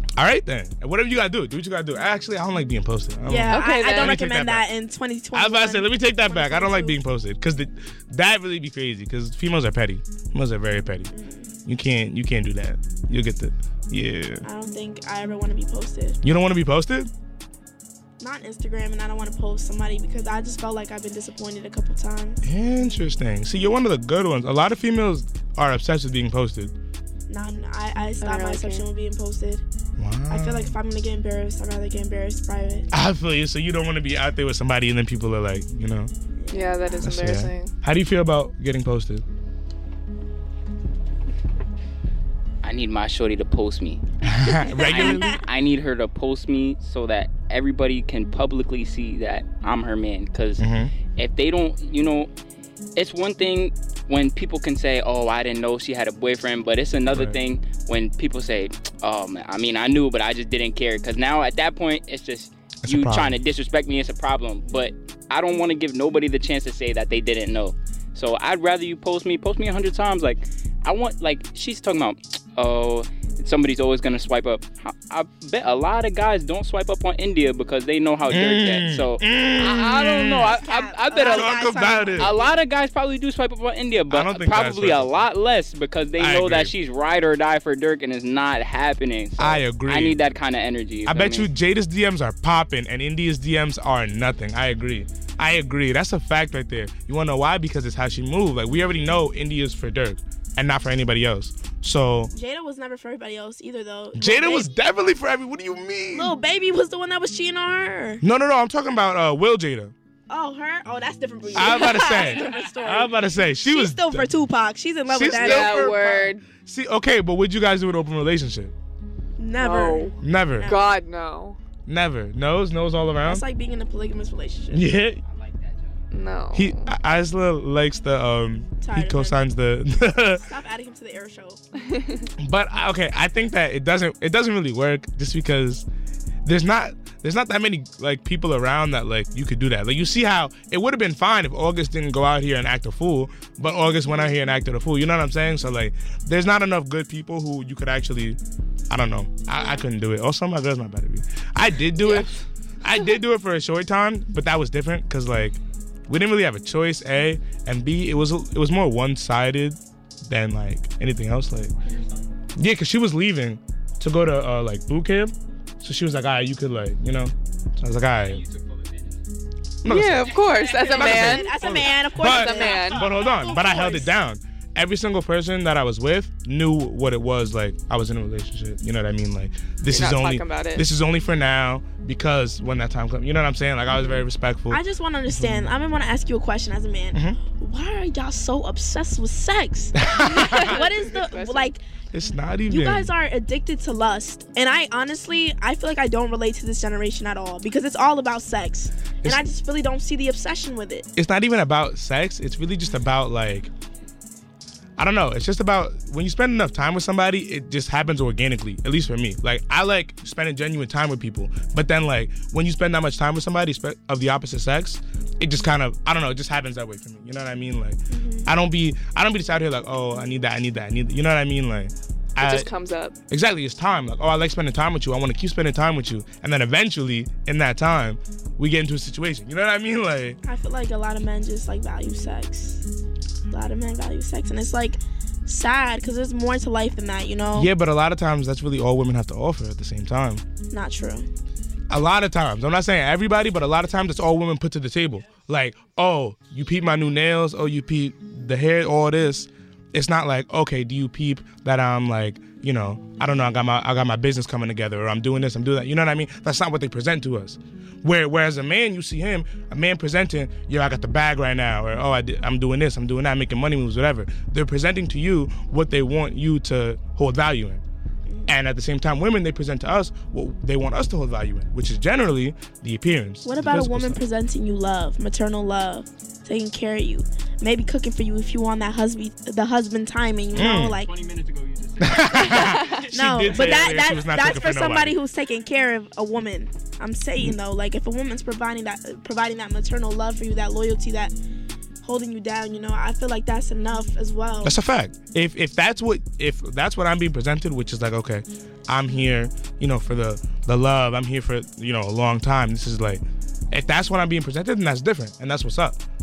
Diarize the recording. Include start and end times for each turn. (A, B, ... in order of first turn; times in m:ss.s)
0:00.2-0:04.7 A
0:03.2-0:07.0 B
0:03.5-0:04.2 C
0:05.3-0:11.1 A
0:11.1-0:11.5 B
0:11.6-0:14.4 A
0:14.4-0:16.2 B
0:16.2-0:17.1 A
0:18.2-0:22.4 B
0:22.4-0:26.7 A
0:27.3-0:29.6 B
0:28.2-0:28.8 C
0:30.0-0:30.8 A
0:30.3-0:32.9 B
0:32.9-0:36.1 A
0:36.4-0:37.1 B
0:36.5-0:37.7 C
0:37.0-0:39.2 A
0:42.6-0:52.3 D
0:44.2-0:45.4 A
0:44.6-0:45.4 B
0:50.6-0:50.9 A
0:53.0-1:31.5 D
0:57.1-0:57.4 A
1:02.8-1:03.4 A
1:18.3-1:20.6 A
1:20.4-1:22.5 B
1:21.2-1:22.4 A
1:24.1-1:25.1 A
1:26.2-1:26.7 A
1:29.4-1:30.2 A
1:31.0-1:42.3 A
1:42.3-1:44.7 B
1:44.1-1:46.3 A
1:46.1-1:48.2 B
1:48.2-1:49.9 A
1:50.3-1:56.2 B
1:51.5-1:54.3 A
1:51.6-1:52.4 C
1:55.1-1:58.7 A
1:55.2-1:56.4 C
1:59.4-2:01.0 B
1:59.6-2:01.6 C
2:00.2-2:00.7 A
2:01.9-2:03.4 A
2:03.2-2:04.9 B
2:04.7-2:05.2 A
2:05.2-2:06.1 E
2:06.1-2:06.9 C
2:06.5-2:10.4 A
2:08.8-2:09.4 B
2:10.4-2:11.6 B
2:11.9-2:12.2 C
2:12.4-2:15.8 A
2:16.4-2:28.4 A
2:28.9-2:32.3 A
2:31.9-2:32.4 C
2:32.8-2:41.7 A
2:41.8-2:42.4 E
2:42.6-2:48.4 A
2:48.2-2:49.3 E
2:49.8-3:04.8 A
2:49.8-2:53.0 C
2:50.2-2:51.8 E
2:50.9-2:54.1 B
2:52.7-2:53.6 E
2:59.9-3:00.8 C
3:04.7-3:11.8 B
3:05.3-3:05.7 A
3:07.1-3:07.4 A
3:10.0-3:10.8 A
3:10.2-3:11.7 C
3:12.1-3:13.1 A
3:12.7-3:21.1 B
3:21.2-3:23.7 A
3:25.0-3:42.7 A
3:38.1-3:38.5 B
3:42.4-3:43.2 C
3:43.3-3:50.4 A
3:50.4-3:52.8 B
3:53.5-3:57.7 B
3:57.5-4:00.4 A
4:00.7-4:01.3 B
4:01.9-4:27.8 A
4:28.3-4:28.5 B
4:28.5-4:34.2 A
4:33.4-4:41.1 B
4:40.5-4:41.0 A
4:40.5-4:44.4 E
4:42.0-4:45.2 A
4:42.5-4:51.3 B
4:42.5-4:43.0 C
4:52.0-4:54.8 B
4:54.6-5:06.0 A